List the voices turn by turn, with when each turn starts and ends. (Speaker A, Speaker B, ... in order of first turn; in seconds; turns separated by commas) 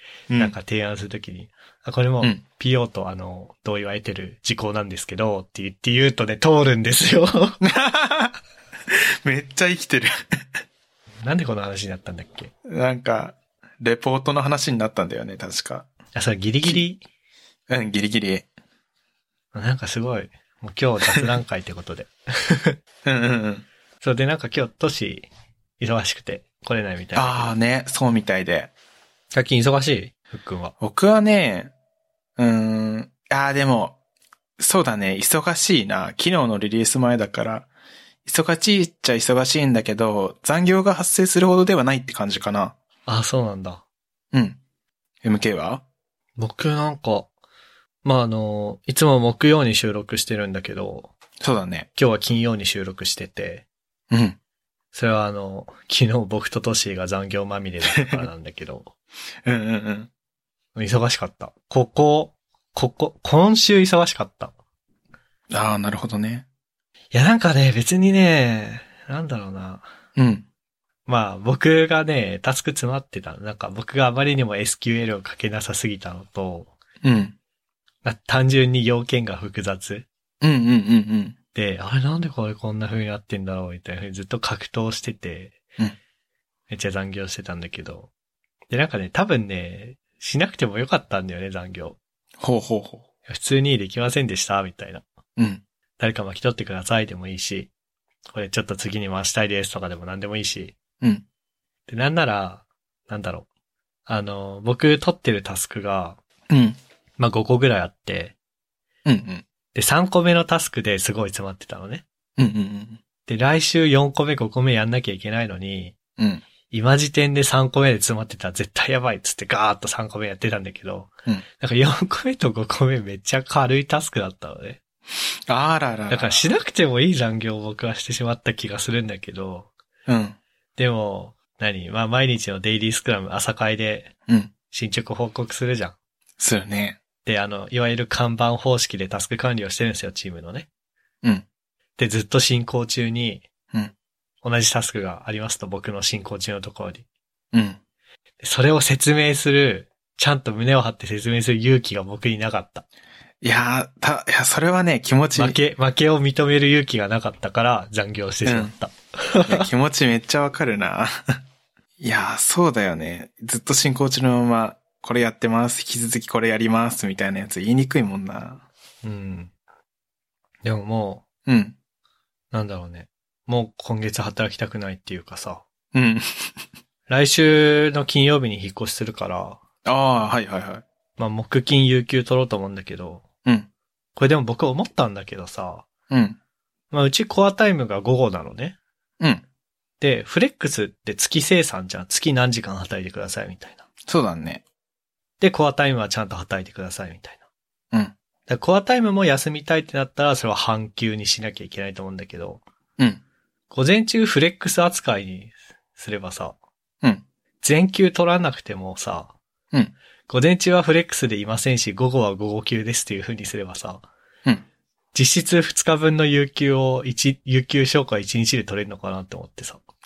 Speaker A: 0.3-0.6, Speaker B: 0.3-7.6, Speaker A: 7.6-8.4, Speaker A: 8.9-10.1, Speaker B: 11.2-12.5, Speaker A: 12.7-15.9, Speaker B: 16.1-17.0, Speaker A: 17.7-18.5, Speaker B: 19.5-22.8, Speaker A: 23.1-23.6, Speaker B: 24.0-25.3, Speaker B: 25.8-27.5, Speaker A: 27.2-28.7, Speaker B: 29.3-30.7, Speaker A: 30.8-31.7, Speaker A: 32.4-34.0, Speaker A: 34.6-37.7, Speaker A: 38.2-42.8, Speaker B: 43.1-43.8, Speaker A: 44.3-44.6, Speaker A: 45.2-45.8, Speaker B: 46.4-47.3, Speaker B: 48.0-51.1, Speaker A: 51.4-51.9, Speaker B: 52.0-53.7, Speaker A: 54.1-54.4, Speaker B: 54.9-58.9, Speaker A: 59.5-60.1, Speaker B: 60.8-64.5, Speaker A: 65.5-66.5, Speaker B: 67.1-69.9, Speaker A: 70.2-70.5, Speaker B: 71.1-76.7, Speaker A: 77.0-77.3, Speaker B: 78.0-80.1, Speaker A: 80.4-81.4, Speaker B: 81.5-85.6, Speaker B: 86.7-88.1, Speaker B: 88.7-92.0, Speaker A: 92.4-93.0, Speaker B: 93.3-95.0, Speaker A: 95.4-95.6, Speaker B: 96.0-97.7, Speaker B: 98.3-100.8, Speaker B: 101.9-103.5, Speaker B: 104.1-106.2, Speaker A: 106.5-106.8, Speaker B: 107.2-108.3, Speaker A: 109.1-109.4, Speaker B: 109.7-112.0, Speaker A: 112.4-113.0, Speaker B: 113.3-116.0, Speaker A: 116.2-116.4, Speaker B: 116.7-124.8, Speaker A: 125.5-126.5, Speaker B: 126.1-129.7, Speaker A: 130.1-130.4, Speaker B: 130.8-134.1, Speaker B: 134.7-136.0, Speaker A: 136.4-137.0, Speaker B: 137.2-140.7, Speaker B: 142.0-143.4, Speaker B: 144.4-147.0, Speaker A: 147.5-147.8, Speaker B: 148.4-152.8, Speaker A: 153.4-155.6, Speaker B: 155.3-159.7, Speaker A: 158.5-158.7, Speaker A: 159.5-161.4, Speaker A: 162.0-168.6, Speaker B: 169.0-169.5, Speaker B: 170.6-171.2, Speaker A: 171.5-171.8, Speaker B: 172.5-175.7, Speaker A: 175.9-176.5, Speaker B: 177.1-179.6, Speaker A: 179.8-180.8, Speaker B: 181.2-183.2, Speaker B: 184.2-185.9, Speaker A: 186.1-186.4, Speaker B: 186.9-188.8, Speaker B: 190.0-193.8, Speaker A: 194.1-194.6, Speaker B: 195.4-197.4, Speaker B: 198.5-202.6, Speaker B: 203.7-206.6, Speaker B: 207.6-209.3, Speaker B: 210.3-214.1, Speaker B: 215.1-219.8